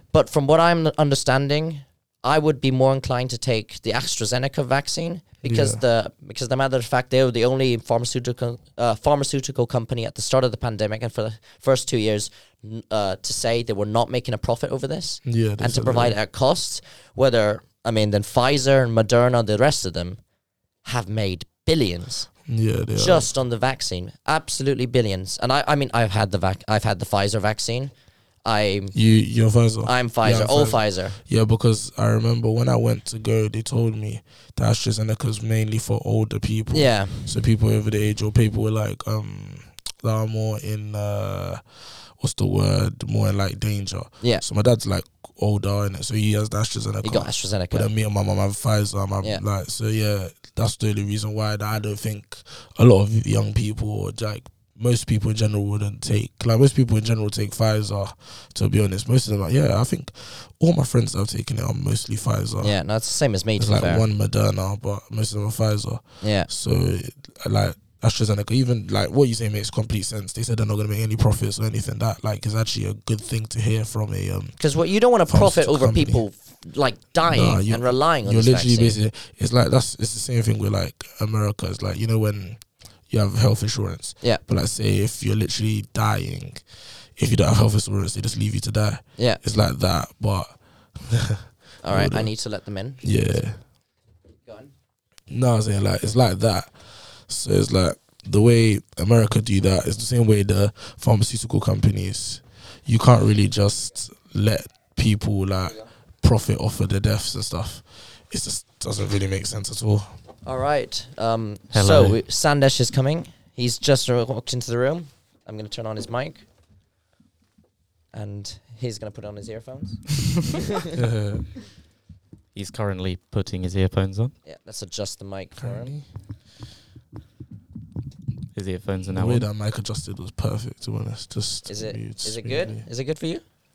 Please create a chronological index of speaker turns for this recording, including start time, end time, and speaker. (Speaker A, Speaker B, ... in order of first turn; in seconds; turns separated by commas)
Speaker A: 0.1-20.2, Speaker B: 5.4-5.8, Speaker B: 15.2-16.1, Speaker A: 20.8-22.3, Speaker B: 22.4-23.3, Speaker A: 22.9-27.9, Speaker A: 28.4-28.9, Speaker B: 28.9-62.8, Speaker A: 29.8-31.2, Speaker A: 36.7-37.3, Speaker A: 47.0-47.9, Speaker A: 62.6-64.0, Speaker B: 63.6-74.6, Speaker A: 66.2-66.5, Speaker A: 74.6-79.0, Speaker B: 75.3-76.2, Speaker B: 77.2-92.3, Speaker A: 91.8-93.0, Speaker B: 93.0-93.6, Speaker A: 94.4-94.7, Speaker B: 95.3-110.1, Speaker A: 110.4-116.4, Speaker C: 111.7-112.2, Speaker A: 118.1-120.6, Speaker B: 120.9-121.5, Speaker C: 122.5-124.3, Speaker A: 124.4-126.0, Speaker B: 125.6-126.0, Speaker C: 128.5-129.5, Speaker B: 129.1-132.8, Speaker A: 131.7-133.4